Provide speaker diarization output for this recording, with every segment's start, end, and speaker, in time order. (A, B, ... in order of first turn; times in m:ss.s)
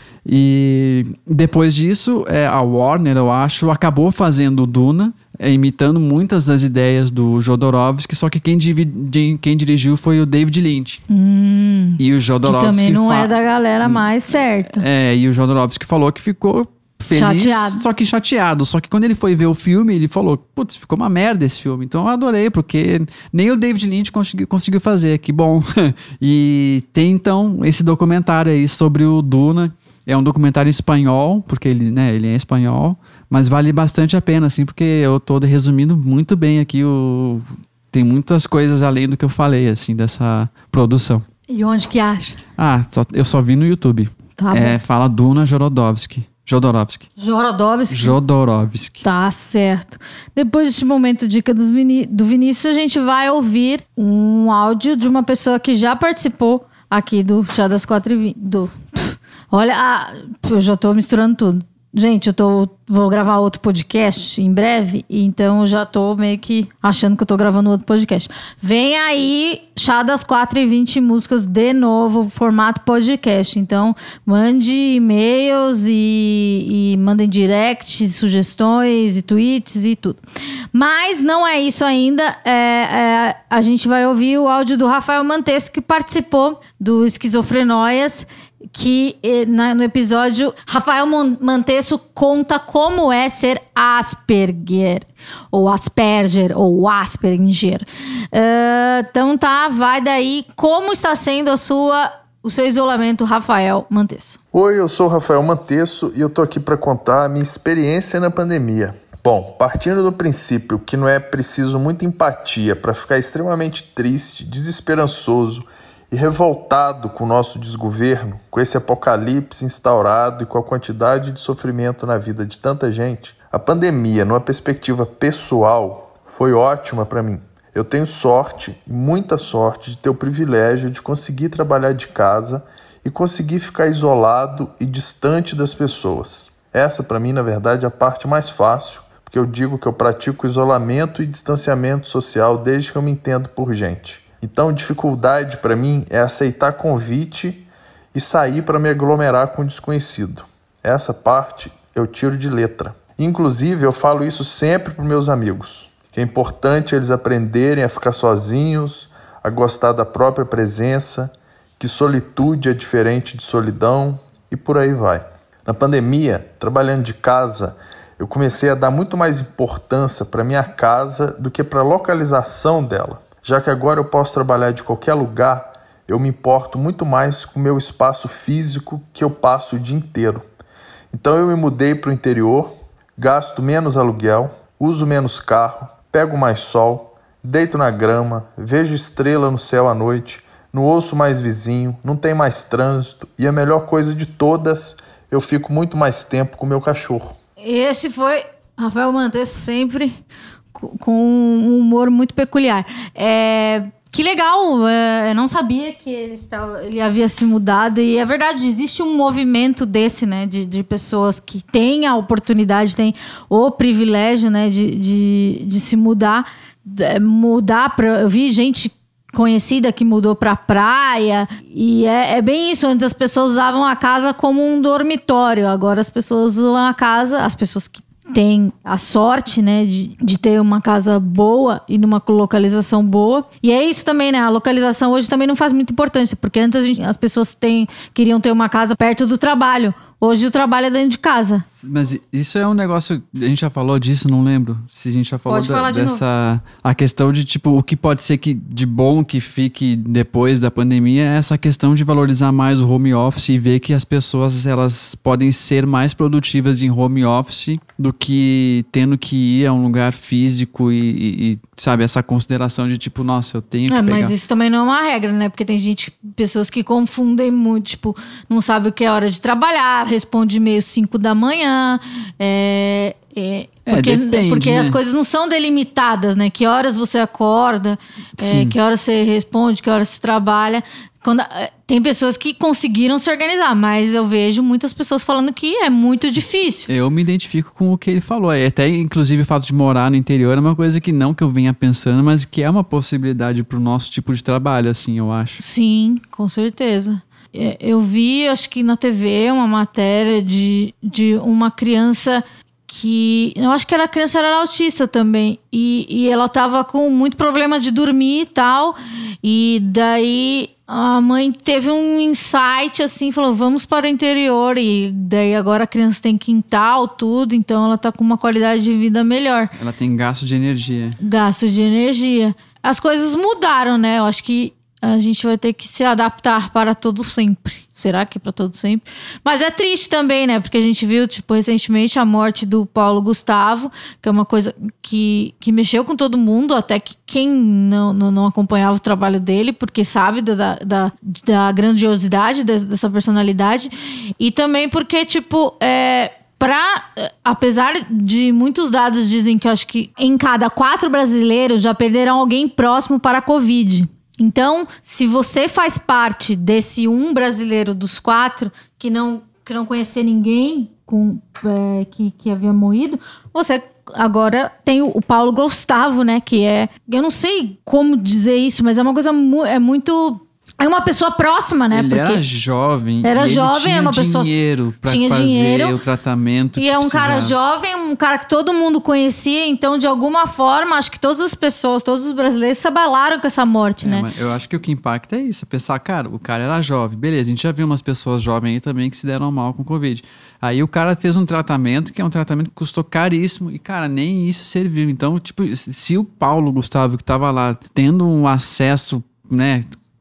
0:00.2-0:11.0 A
0:11.1-0:14.8 B
0:12.0-0:14.0 A
0:14.7-0:41.2 A
0:17.1-0:17.8 B
0:41.5-0:42.4 B
0:42.6-0:47.0 A
0:44.4-0:44.8 B
0:47.2-0:48.2 B
0:47.9-0:49.0 A
0:49.0-1:20.2 B
1:20.7-1:44.4 B
1:44.5-3:00.4 C
3:01.1-3:17.3 C
3:17.6-3:20.2 B
3:20.7-4:01.6 B
4:01.8-4:24.3 A
4:05.5-4:06.2 B
4:23.9-4:46.9 B
4:33.9-4:35.0 A
4:38.4-4:38.7 A
4:46.9-4:55.6 A
4:55.6-5:19.7 B
5:19.8-5:21.2 A
5:21.2-6:12.4 B
6:11.9-6:17.5 A
6:13.2-6:16.0 B
6:16.8-6:24.3 B
6:24.0-6:39.9 A